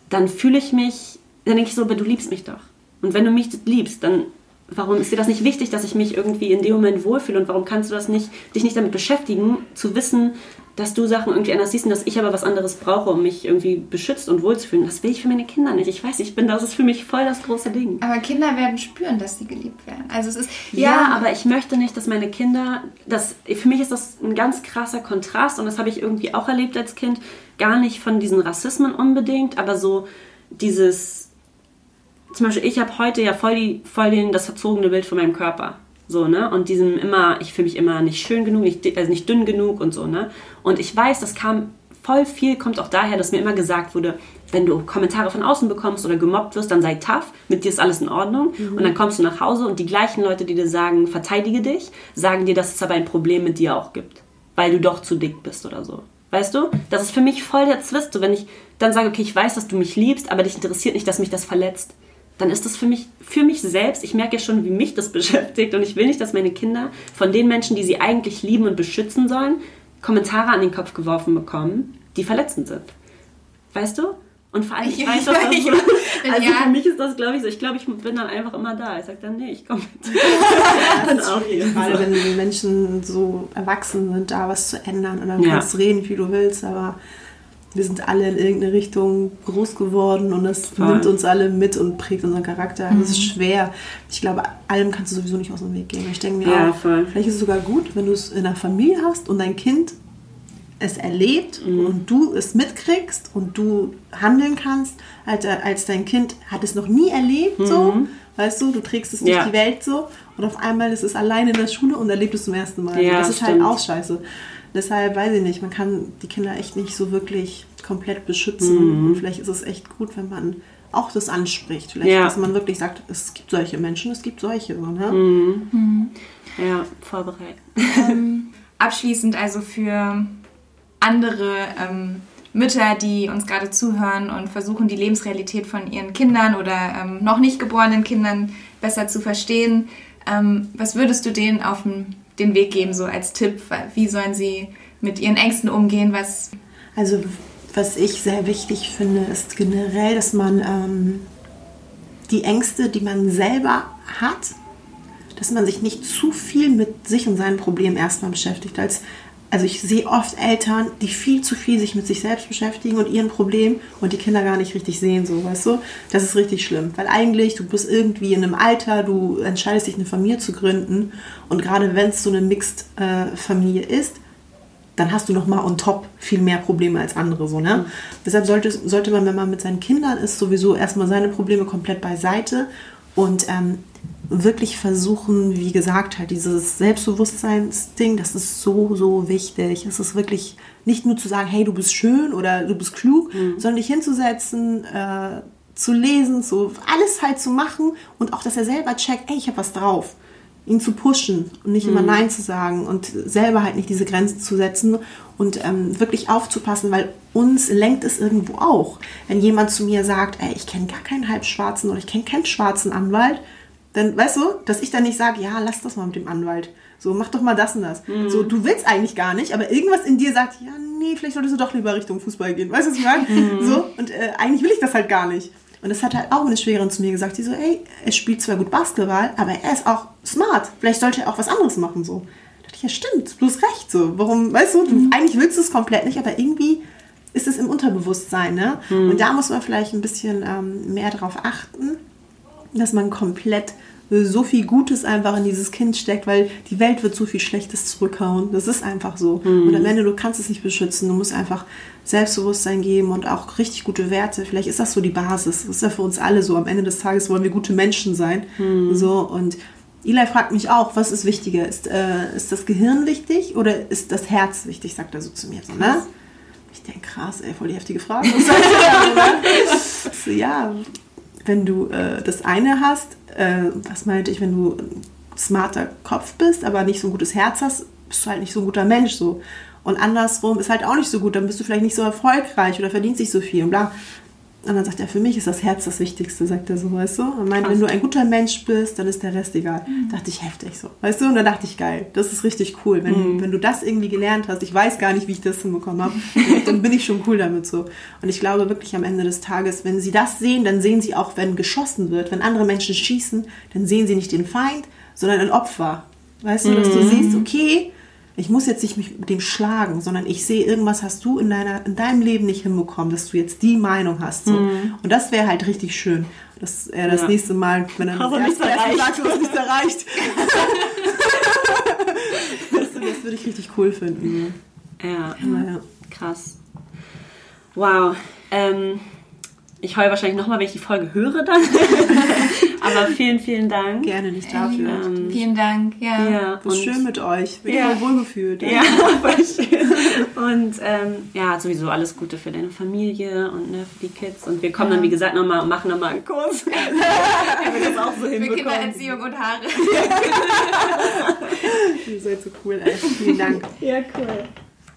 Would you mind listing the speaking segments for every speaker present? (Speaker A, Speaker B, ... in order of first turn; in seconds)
Speaker A: 0.1-18.0, 20.7-31.3, 32.3-72.9, 73.7-82.2, 85.4-85.7, 90.8-91.1, 96.4-97.1, 101.6-102.0, 107.6-108.1, 109.2-109.5, 112.9-113.8, 118.6-119.2, 122.0-122.4, 125.1-125.7, 126.6-128.2, 193.3-193.6, 201.8-202.2, 218.1-218.5, 223.2-223.8, 238.9-239.2, 249.4-249.9, 258.6-259.1, 265.8-266.0, 293.1-293.5, 296.4-296.7, 306.6-307.5, 314.5-314.9, 317.1-317.3, 318.0-319.6, 325.0-325.4, 326.1-326.6, 327.8-329.0, 329.8-335.4, 336.2-337.0, 337.7-338.1, 338.6-349.2, 349.9-351.7, 353.8-354.5
Speaker B: 18.0-21.2, 74.8-76.8, 92.9-93.3, 125.7-126.1, 127.9-130.4, 131.0-146.5, 289.9-290.1, 334.5-336.4, 344.8-345.1, 346.7-351.1
Speaker C: 48.6-49.0, 80.1-87.0, 87.7-100.0, 100.8-125.2, 147.0-151.3, 152.3-154.6, 155.4-174.2, 175.0-213.4, 213.9-236.8, 237.3-242.0, 242.7-266.1, 266.7-283.9, 284.6-324.6, 325.4-325.8, 334.0-335.4, 336.6-339.2, 350.7-353.7